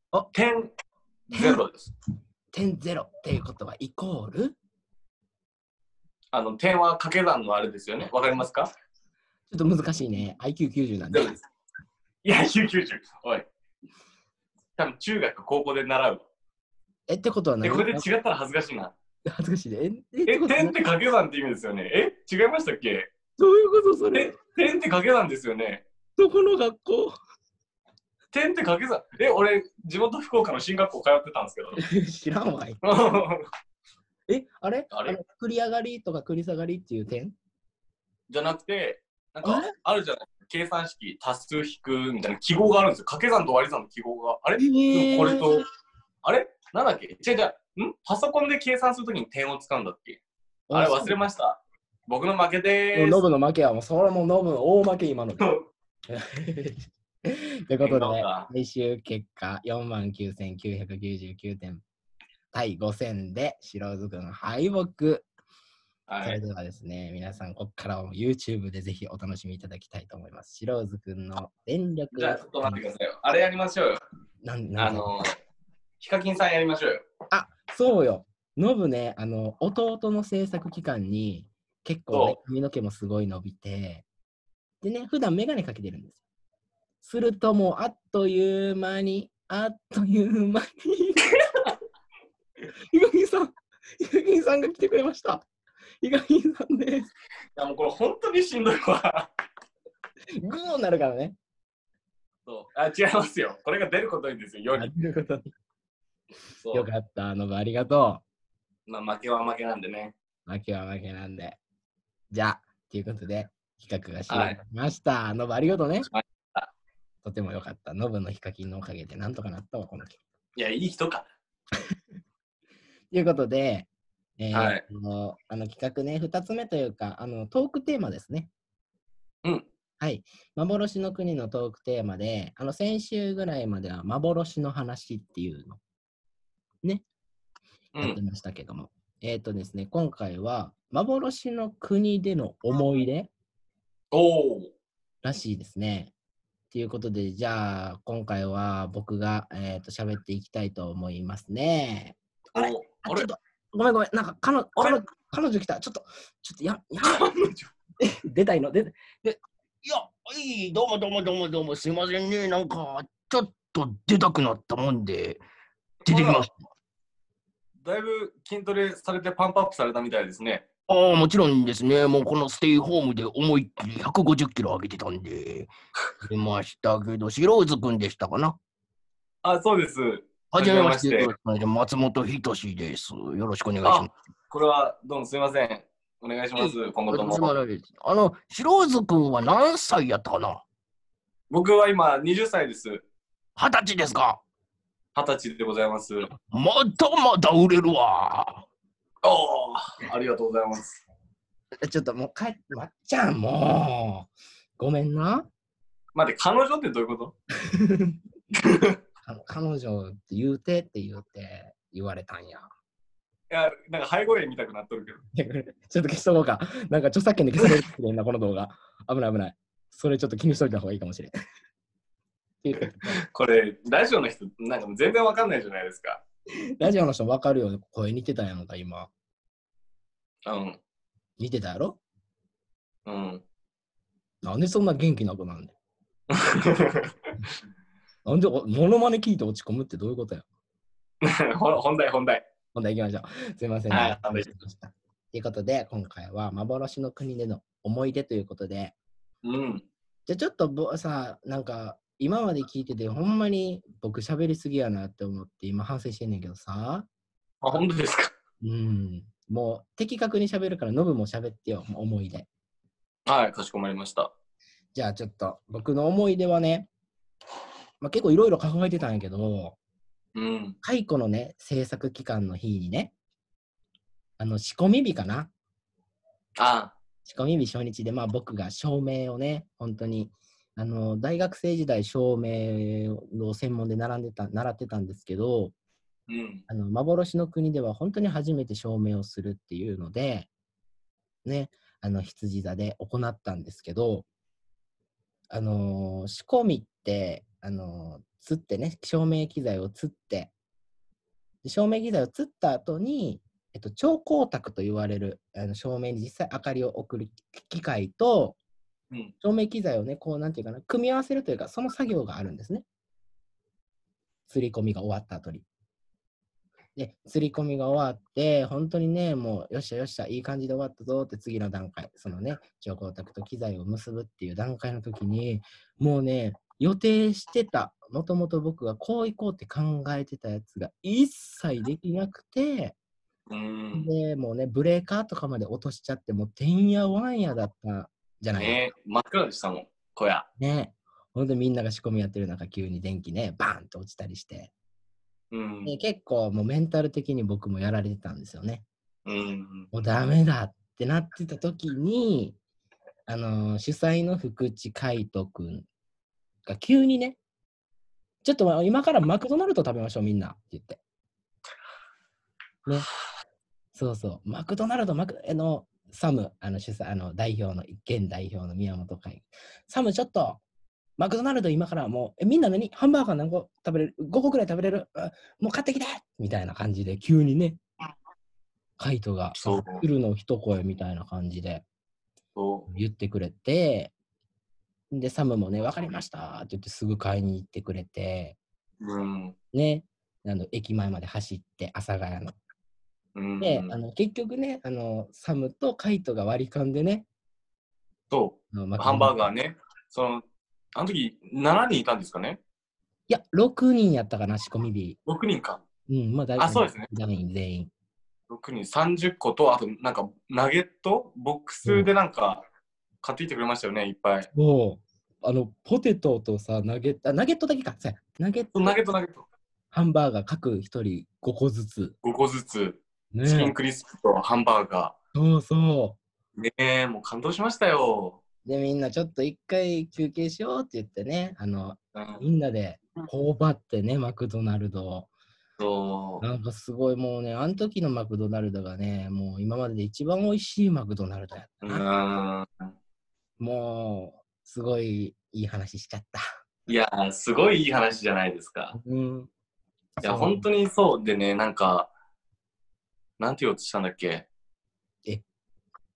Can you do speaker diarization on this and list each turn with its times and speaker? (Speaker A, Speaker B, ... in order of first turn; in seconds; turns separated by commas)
Speaker A: 0.3-0.7, Speaker A: 1.3-1.9, Speaker B: 1.3-1.6, Speaker B: 2.5-4.5, Speaker A: 6.3-8.7, Speaker B: 9.5-11.4, Speaker A: 11.1-11.4, Speaker A: 12.2-13.5, Speaker A: 14.8-16.2, Speaker B: 17.1-18.1, Speaker A: 17.6-18.9, Speaker B: 19.2-20.8, Speaker A: 20.2-23.1, Speaker B: 23.4-24.3, Speaker A: 24.1-25.9, Speaker B: 26.2-27.2, Speaker A: 28.3-31.8, Speaker B: 31.8-32.9, Speaker A: 32.8-33.5, Speaker B: 34.3-37.3, Speaker A: 34.9-35.2, Speaker A: 38.3-45.6, Speaker B: 39.4-39.7, Speaker B: 44.6-45.6, Speaker A: 46.2-50.2, Speaker B: 50.7-51.2, Speaker A: 50.7-53.2, Speaker B: 52.9-55.5, Speaker B: 56.1-61.8, Speaker A: 57.8-58.5, Speaker B: 62.5-65.2, Speaker A: 66.1-66.4, Speaker B: 66.2-72.8, Speaker A: 72.1-74.0, Speaker B: 74.4-75.1, Speaker A: 74.8-75.3, Speaker A: 76.0-77.0, Speaker B: 77.3-84.0, Speaker A: 82.1-82.4, Speaker B: 84.8-86.2, Speaker B: 87.0-91.3, Speaker B: 92.9-95.4, Speaker B: 96.0-97.1, Speaker A: 97.6-99.3, Speaker B: 100.4-101.4, Speaker A: 102.5-104.9, Speaker B: 104.7-105.5, Speaker A: 106.6-106.9, Speaker B: 106.7-108.2, Speaker A: 108.9-110.1, Speaker B: 110.5-111.6, Speaker B: 112.3-116.1, Speaker A: 114.3-114.6, Speaker A: 116.1-116.7, Speaker B: 117.2-120.2, Speaker A: 120.6-121.3, Speaker B: 123.1-123.9, Speaker B: 124.4-128.5, Speaker A: 124.5-124.8, Speaker B: 130.0-135.8, Speaker A: 137.9-138.2, Speaker B: 138.0-143.3, Speaker A: 144.1-144.7, Speaker B: 145.2-146.1, Speaker B: 146.7-157.3, Speaker A: 152.5-153.3, Speaker A: 154.8-155.0, Speaker A: 157.0-157.7, Speaker B: 158.0-159.4, Speaker C: 159.8-165.4, Speaker A: 166.0-166.5, Speaker C: 166.1-166.5, Speaker A: 167.8-170.7, Speaker C: 170.9-175.7, Speaker C: 176.2-178.6, Speaker A: 179.4-181.3, Speaker C: 180.5-184.1, Speaker A: 183.8-187.5, Speaker C: 186.6-190.6, Speaker A: 191.5-193.0, Speaker C: 193.6-194.4, Speaker A: 195.2-196.3, Speaker C: 196.5-198.7, Speaker A: 199.2-201.0, Speaker B: 201.8-205.5, Speaker A: 206.2-207.3, Speaker B: 207.6-208.2, Speaker A: 208.5-209.0, Speaker B: 209.2-212.7, Speaker A: 213.5-215.2, Speaker B: 215.3-221.3, Speaker B: 222.6-223.2, Speaker A: 222.8-226.2, Speaker B: 226.8-229.1, Speaker A: 230.5-230.8, Speaker B: 231.4-232.0, Speaker A: 233.1-233.4, Speaker B: 234.4-235.8, Speaker A: 236.3-237.3, Speaker B: 238.2-240.4, Speaker A: 241.2-242.4, Speaker B: 242.7-248.9, Speaker A: 243.9-244.5, Speaker A: 249.4-249.8, Speaker B: 250.3-257.1, Speaker A: 257.6-258.3, Speaker B: 258.6-262.5, Speaker A: 263.3-264.3, Speaker B: 264.9-266.9, Speaker B: 268.0-269.8, Speaker A: 270.4-270.8, Speaker B: 270.8-273.1, Speaker B: 274.4-275.5, Speaker A: 276.6-277.0, Speaker B: 277.2-285.7, Speaker A: 286.3-286.6, Speaker B: 286.7-290.5, Speaker B: 291.4-294.2, Speaker B: 295.5-300.5, Speaker B: 301.6-308.6, Speaker B: 309.4-312.9, Speaker B: 314.5-315.6, Speaker B: 317.0-332.9, Speaker A: 333.5-334.1, Speaker B: 333.9-338.8, Speaker A: 338.5-340.5, Speaker B: 340.6-344.7, Speaker A: 345.5-345.9, Speaker B: 345.9-348.9, Speaker A: 349.2-349.9, Speaker B: 349.9-352.6, Speaker B: 353.3-355.9, Speaker B: 356.6-357.4, Speaker B: 358.4-361.0, Speaker B: 363.9-370.6, Speaker B: 371.2-377.8, Speaker B: 379.0-381.8, Speaker A: 379.5-380.0, Speaker A: 382.5-382.9, Speaker B: 382.9-384.1, Speaker B: 385.1-388.6, Speaker A: 389.0-389.5, Speaker B: 389.7-392.5, Speaker A: 393.4-394.0, Speaker B: 393.6-397.2, Speaker A: 398.3-400.4, Speaker B: 398.7-399.5, Speaker A: 401.0-402.6, Speaker B: 403.3-405.2, Speaker A: 405.2-405.8, Speaker B: 406.1-407.9, Speaker A: 406.6-407.1, Speaker A: 408.5-412.6, Speaker B: 411.9-412.1, Speaker A: 413.2-414.5, Speaker B: 414.5-419.0, Speaker A: 418.7-419.5, Speaker B: 419.9-422.1, Speaker A: 422.2-425.1, Speaker B: 423.3-423.8, Speaker B: 425.3-426.2, Speaker A: 426.6-428.4, Speaker B: 428.6-435.3, Speaker A: 432.1-432.5, Speaker A: 435.8-436.4, Speaker B: 436.4-442.1, Speaker A: 441.8-442.9, Speaker B: 443.6-446.4, Speaker A: 446.9-449.0, Speaker B: 448.9-449.5, Speaker B: 450.2-450.6, Speaker A: 450.2-452.1, Speaker A: 453.4-454.5